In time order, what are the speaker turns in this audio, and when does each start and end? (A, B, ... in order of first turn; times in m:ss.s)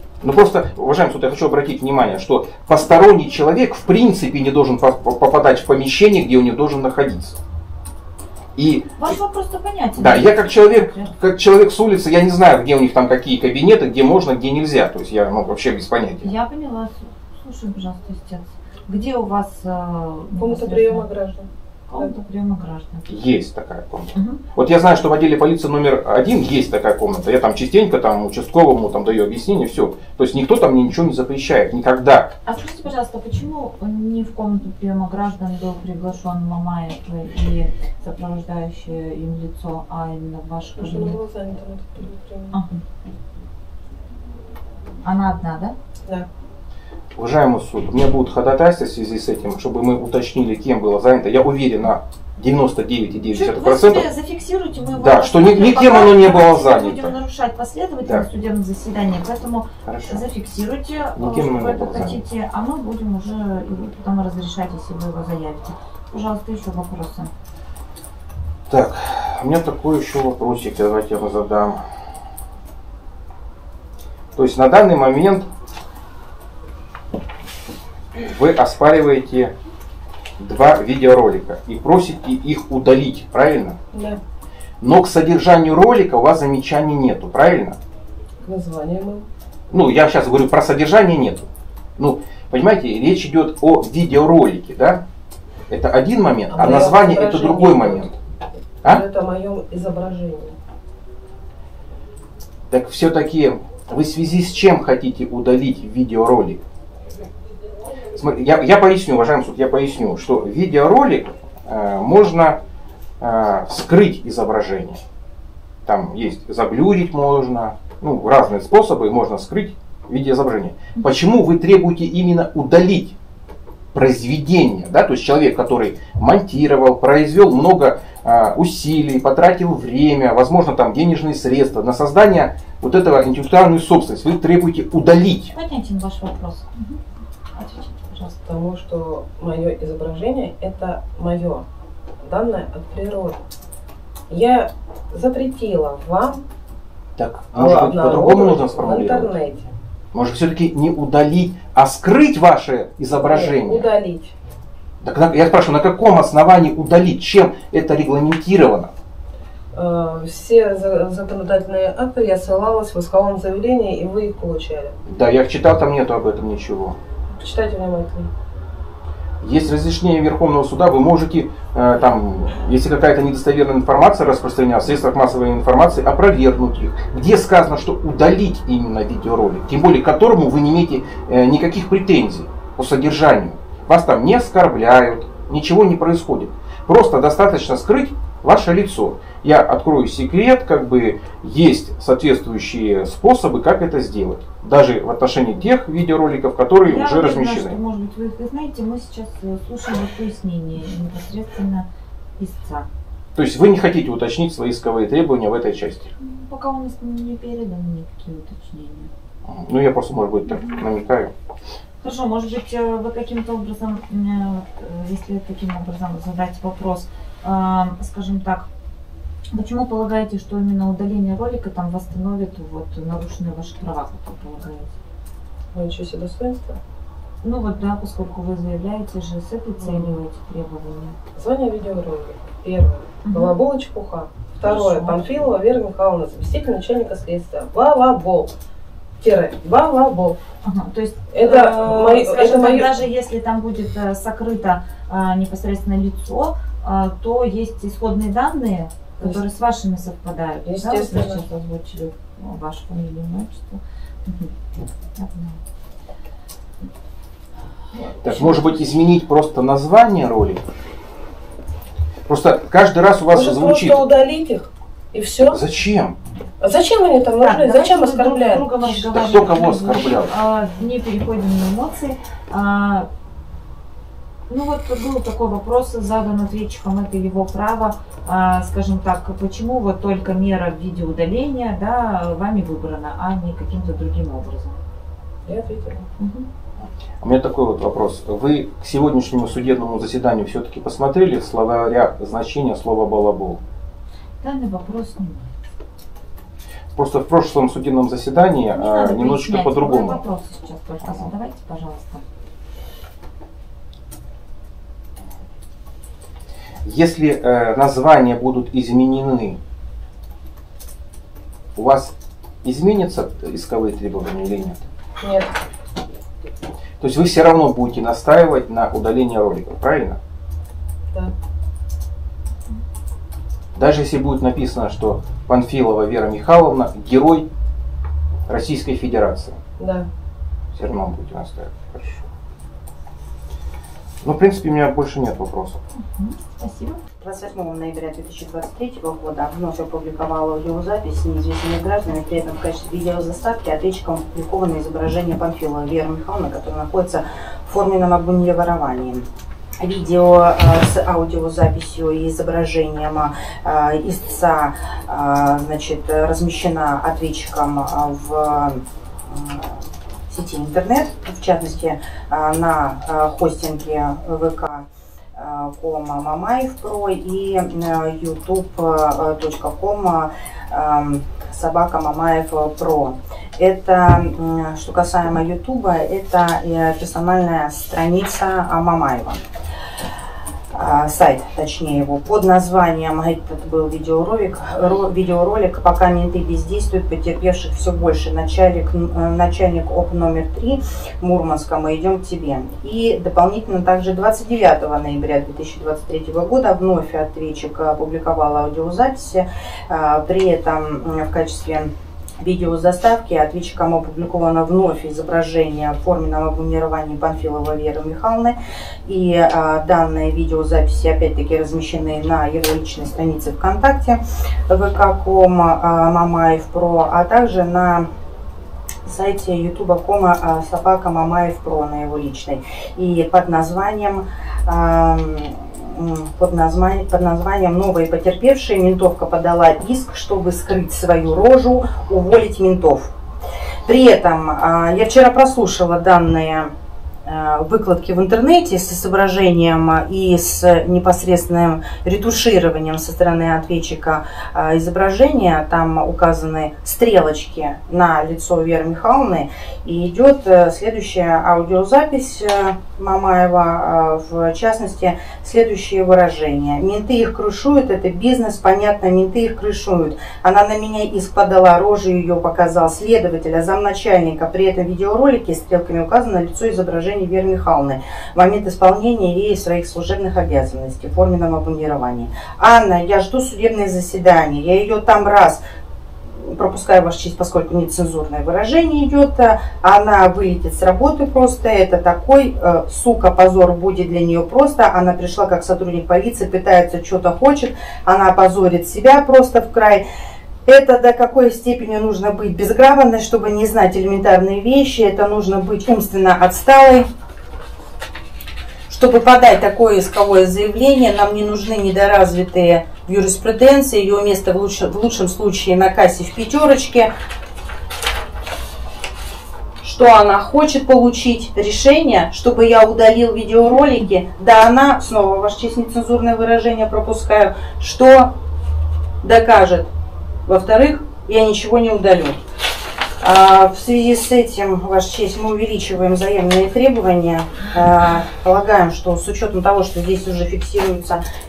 0:00.2-0:07.4 A
0:08.6-0:09.1 A
0:09.0-0:11.1 B
0:10.0-0:16.3 A
0:16.2-0:21.1 B
0:20.4-0:22.1 C
0:21.9-0:23.1 B
0:23.1-0:32.3 A
0:24.1-0:24.4 B
0:32.4-0:41.2 B
0:40.8-0:42.5 C
0:42.5-0:42.8 B
0:45.0-0:45.7 B
0:47.2-0:54.1 A
0:53.3-1:07.3 B
0:55.0-0:57.1 A
0:59.8-1:00.2 A
1:01.2-1:02.2 A
1:08.7-1:11.8 A
1:14.3-1:15.5 A
1:18.1-1:19.5 A
1:20.4-1:23.8 A
1:23.9-1:24.2 C
1:24.8-1:27.8 A
1:28.4-1:29.3 C
1:29.7-1:35.0 A
1:35.7-1:38.1 A
1:36.5-1:38.1 C
1:38.8-1:40.6 C
1:42.7-1:46.6 A
1:48.1-1:52.6 A
1:53.2-1:55.0 A
1:55.8-2:03.2 A
2:03.9-2:15.5 A
2:15.5-2:17.0 B
2:17.6-2:18.4 B
2:18.4-2:21.6 C
2:22.2-2:23.4 C
2:24.3-2:26.4 C
2:27.2-2:29.3 A
2:27.5-2:29.7 C
2:30.1-2:33.9 A
2:33.2-2:34.3 C
2:35.0-2:38.9 A
2:39.7-2:44.9 C
2:45.1-2:47.0 A
2:47.3-2:48.3 C
2:49.4-3:17.8 A
3:16.8-3:21.9 B
3:22.4-3:22.9 B
3:23.3-3:26.1 A
3:26.2-3:29.1 B
3:29.4-3:31.3 A
3:30.5-3:30.8 B
3:32.0-3:38.7 B
3:39.5-3:44.9 B
3:45.7-3:46.8 C
3:47.4-3:51.2 B
3:49.8-3:50.2 C
3:51.4-3:58.5 C
3:53.2-3:53.6 B
3:54.6-3:55.4 B
3:59.2-4:00.4 C
4:00.6-4:14.5 B
4:01.3-4:03.0 C
4:10.6-4:11.4 C
4:15.2-4:15.6 B
4:17.9-4:19.0 B
4:18.2-4:20.6 A
4:22.3-4:24.0 A
4:23.3-4:25.6 C
4:25.5-4:26.2 A
4:26.6-4:28.7 C
4:27.4-4:33.1 B
4:28.8-4:30.3 A
4:34.5-4:44.8 B
4:45.4-4:46.0 C
4:46.2-4:46.5 B
4:46.8-4:53.6 A
4:54.4-4:55.5 B
4:56.9-5:00.2 A
4:58.7-5:02.2 B
5:06.8-5:09.6 A
5:11.8-5:14.9 A
5:15.2-5:15.5 C
5:17.0-5:20.2 A
5:23.7-5:27.5 A
5:28.5-5:29.6 A
5:29.8-5:30.1 C
5:30.7-5:32.3 A
5:34.2-5:35.8 A
5:36.0-5:37.0 B
5:37.2-5:49.2 D
5:49.8-6:19.4 D
6:20.7-6:58.1 D
6:59.0-7:13.1 D
7:13.8-7:16.7 D
7:17.2-7:55.6 D
7:56.4-8:10.0 D
8:10.6-8:17.1 D
8:18.9-8:27.1 D
8:29.8-8:38.3 D
8:39.2-8:39.9 D
8:40.4-8:42.4 D
8:43.2-8:51.2 D